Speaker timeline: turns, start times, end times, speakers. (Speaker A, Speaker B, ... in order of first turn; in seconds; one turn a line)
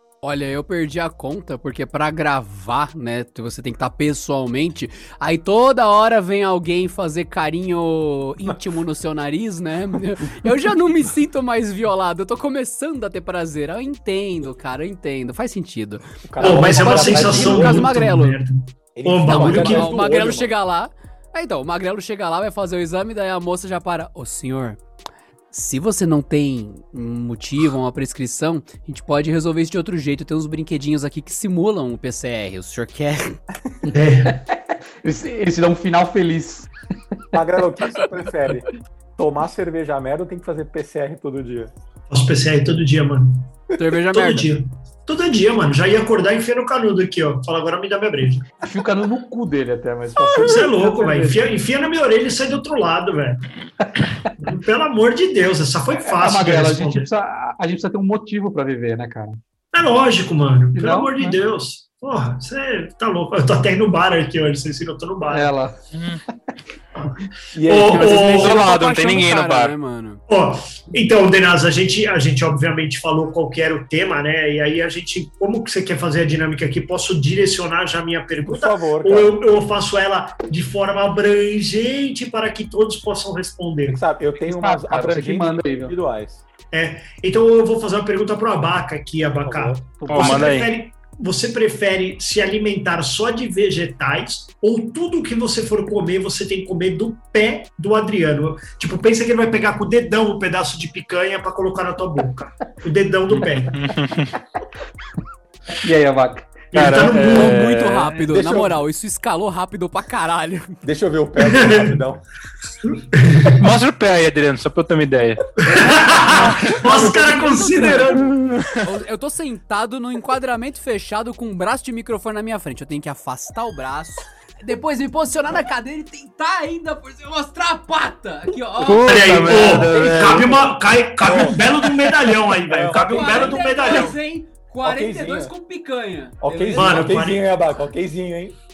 Speaker A: 0.2-16.0
Speaker B: 16.2-17.8
Speaker C: 16.4-20.0
Speaker D: 16.4-17.9
Speaker A: 17.0-18.4
Speaker B: 18.9-20.5
Speaker A: 19.4-24.8
Speaker A: 25.5-33.4
Speaker D: 33.9-36.7
Speaker C: 33.9-34.4
Speaker B: 37.3-41.7
Speaker C: 42.1-43.6
Speaker A: 43.8-44.5
Speaker C: 44.1-48.5
Speaker D: 48.6-51.4
Speaker C: 50.4-53.5
Speaker C: 54.4-57.1
Speaker D: 55.9-59.4
Speaker C: 59.7-65.5
Speaker D: 60.8-61.4
Speaker D: 65.3-65.8
Speaker E: 65.9-66.2
Speaker B: 67.5-68.1
Speaker C: 67.6-68.6
Speaker A: 67.9-70.2
Speaker E: 68.1-69.7
Speaker C: 70.3-84.0
Speaker B: 78.4-79.4
Speaker B: 83.9-86.4
Speaker D: 84.4-86.0
Speaker C: 86.7-103.7
Speaker B: 89.4-90.0
Speaker D: 90.0-90.6
Speaker E: 90.1-90.7
Speaker E: 103.7-104.3
Speaker D: 105.8-108.3
Speaker C: 106.7-107.6
Speaker E: 106.7-108.0
Speaker A: 107.2-110.8
Speaker B: 108.3-108.8
Speaker B: 110.8-112.2
Speaker C: 111.4-112.0
Speaker C: 112.8-113.5
Speaker E: 113.5-115.5
Speaker C: 115.6-118.3
Speaker A: 116.4-130.4
Speaker E: 118.1-118.9
Speaker E: 128.8-130.6
Speaker C: 129.0-134.2
Speaker B: 131.2-131.7
Speaker B: 132.6-134.1
Speaker A: 133.1-137.2
Speaker B: 134.8-135.5
Speaker B: 136.4-138.6
Speaker C: 136.7-137.4